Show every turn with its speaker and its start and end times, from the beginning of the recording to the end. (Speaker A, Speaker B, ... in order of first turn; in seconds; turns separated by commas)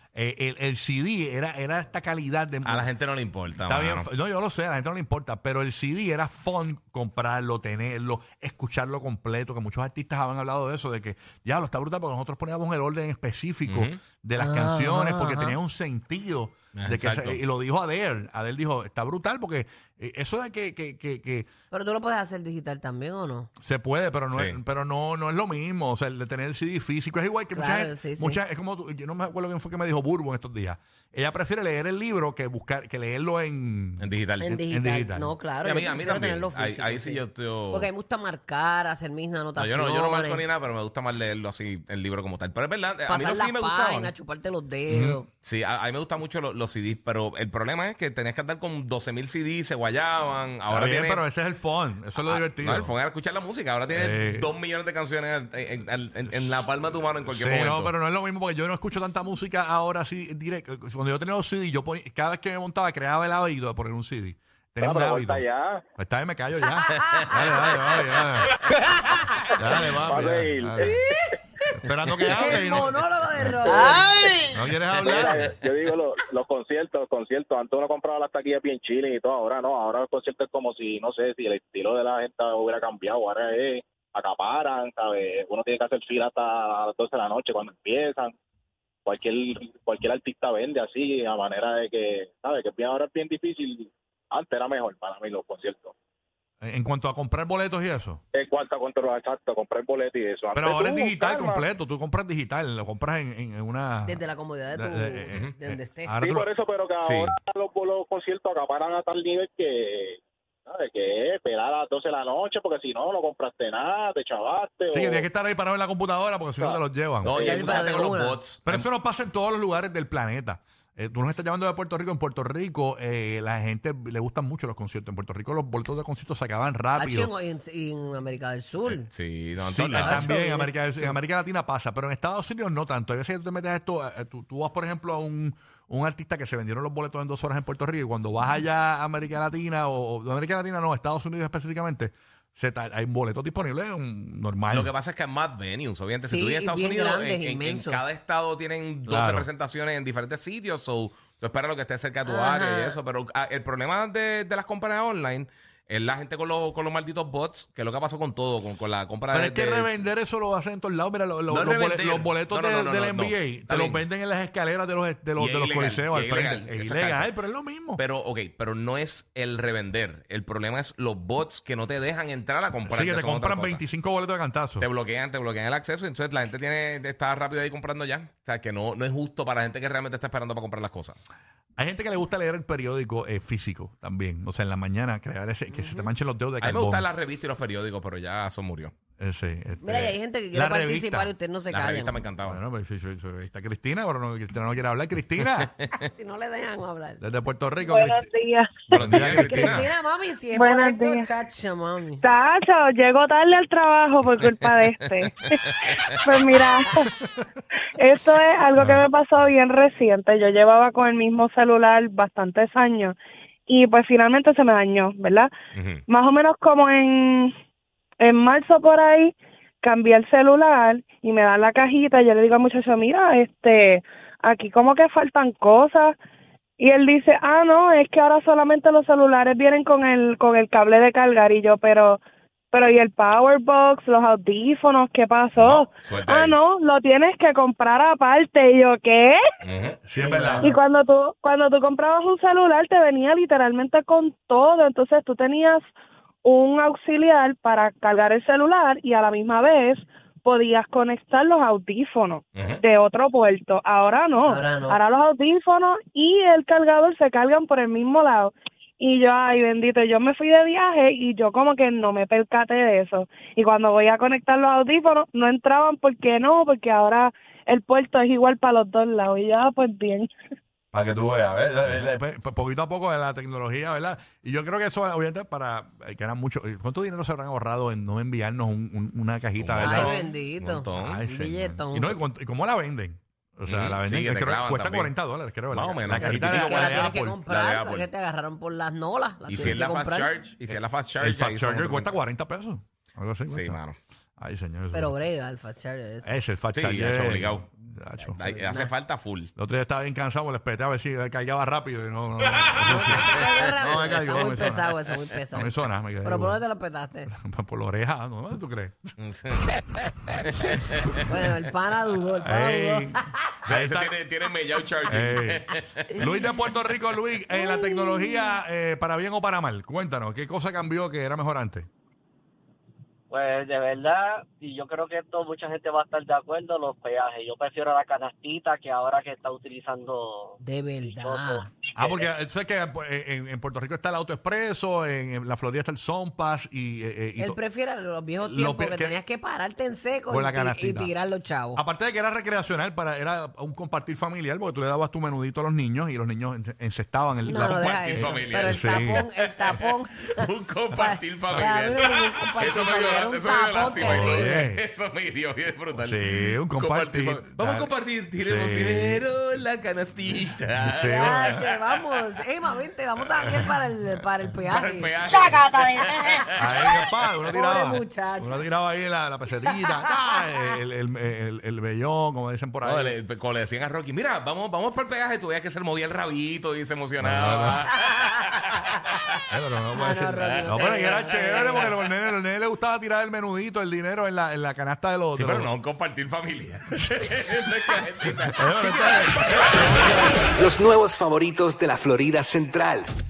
Speaker A: 0.1-2.9, Speaker B: 2.6-4.1, Speaker A: 3.6-21.5, Speaker B: 13.7-14.0, Speaker C: 14.4-15.6, Speaker B: 16.7-17.4, Speaker C: 21.7-23.5, Speaker A: 23.6-35.3, Speaker C: 27.5-28.4, Speaker B: 34.0-34.6, Speaker C: 34.4-40.4, Speaker B: 35.6-37.9, Speaker B: 39.6-44.1, Speaker C: 43.1-45.3, Speaker A: 44.9-45.2, Speaker B: 45.4-51.2, Speaker A: 50.7-52.9, Speaker B: 52.2-57.9, Speaker A: 53.9-54.5, Speaker A: 56.3-56.6, Speaker A: 57.3-65.4, Speaker D: 64.8-65.8, Speaker A: 66.0-68.9, Speaker C: 66.6-67.8, Speaker C: 69.2-69.5, Speaker A: 69.5-71.0, Speaker D: 69.7-71.0, Speaker C: 70.8-71.4, Speaker A: 71.8-73.9, Speaker C: 72.2-74.4, Speaker A: 74.5-75.5, Speaker D: 75.0-88.3, Speaker B: 75.0-75.5, Speaker D: 89.0-95.9, Speaker A: 96.6-98.2, Speaker D: 98.3-101.6, Speaker A: 100.5-104.2, Speaker C: 104.0-106.2, Speaker A: 104.7-106.5, Speaker D: 106.2-115.2, Speaker B: 107.0-107.3, Speaker A: 114.9-117.4, Speaker B: 117.2-118.8, Speaker D: 117.3-117.9, Speaker C: 117.3-118.4, Speaker A: 118.7-127.3, Speaker C: 126.9-129.1, Speaker B: 128.9-130.3, Speaker A: 129.6-144.9, Speaker C: 130.0-131.1, Speaker B: 144.7-159.9, Speaker C: 146.2-148.0, Speaker A: 149.1-149.5, Speaker C: 152.2-153.0, Speaker A: 159.3-168.0, Speaker B: 161.5-164.0, Speaker B: 165.4-167.3, Speaker B: 167.9-173.8, Speaker A: 172.8-174.8, Speaker B: 174.8-181.2, Speaker A: 181.8-187.1, Speaker C: 185.7-186.1, Speaker B: 186.6-188.9, Speaker A: 189.2-191.3, Speaker C: 189.8-192.2, Speaker B: 191.7-192.6, Speaker A: 192.4-195.7, Speaker B: 195.4-195.9, Speaker C: 196.0-197.2, Speaker A: 197.2-198.2, Speaker E: 197.9-199.0, Speaker B: 198.9-199.9, Speaker A: 199.0-199.9, Speaker C: 199.1-202.2, Speaker E: 200.5-201.3, Speaker E: 202.2-205.6, Speaker B: 205.6-206.1, Speaker E: 206.1-207.1, Speaker E: 207.9-213.1, Speaker A: 208.8-209.0, Speaker E: 213.7-215.5, Speaker B: 215.7-216.0, Speaker E: 216.1-217.5, Speaker E: 218.2-226.1, Speaker E: 226.8-232.2, Speaker E: 232.7-239.4, Speaker B: 235.6-236.6, Speaker B: 239.6-240.0, Speaker A: 240.0-240.7, Speaker C: 240.3-240.7, Speaker E: 240.6-245.8, Speaker E: 246.4-270.3, Speaker C: 254.4-255.0, Speaker A: 270.9-280.2, Speaker B: 279.6-281.2, Speaker C: 279.8-282.2, Speaker A: 280.9-287.4, Speaker B: 283.7-285.1, Speaker B: 285.7-288.1, Speaker C: 286.2-290.3, Speaker B: 289.4-292.1, Speaker A: 289.5-289.8, Speaker A: 290.7-293.8, Speaker B: 293.5-294.0, Speaker A: 294.4-295.1, Speaker C: 294.9-296.3, Speaker A: 296.2-298.4, Speaker B: 296.7-297.6, Speaker C: 298.2-298.9, Speaker B: 298.3-299.5, Speaker A: 299.6-305.0, Speaker C: 302.8-305.7, Speaker B: 303.9-304.8, Speaker A: 305.5-306.6, Speaker C: 306.2-307.3, Speaker A: 307.3-309.1, Speaker B: 309.2-311.2, Speaker C: 311.2-313.4, Speaker A: 312.4-314.1, Speaker B: 313.6-316.5, Speaker A: 315.1-321.9, Speaker C: 316.1-316.5, Speaker C: 317.6-318.2, Speaker F: 323.3-330.5, Speaker C: 330.6-331.7, Speaker F: 331.2-331.6, Speaker A: 331.9-337.6, Speaker C: 337.4-341.8, Speaker A: 338.4-339.2, Speaker A: 340.3-341.1, Speaker A: 341.7-349.2, Speaker C: 347.4-354.6, Speaker B: 347.5-362.2, Speaker A: 353.9-354.8, Speaker A: 355.9-357.9, Speaker A: 358.4-359.2, Speaker A: 360.8-361.6, Speaker C: 361.1-365.7, Speaker B: 363.2-363.7, Speaker B: 364.6-366.9, Speaker A: 366.6-373.2, Speaker C: 367.5-368.6, Speaker C: 369.6-370.8, Speaker B: 372.8-379.4, Speaker A: 377.2-377.8, Speaker A: 379.5-385.7, Speaker C: 379.9-381.9, Speaker B: 380.4-381.9, Speaker B: 385.3-390.4, Speaker A: 388.5-390.4, Speaker G: 390.6-393.1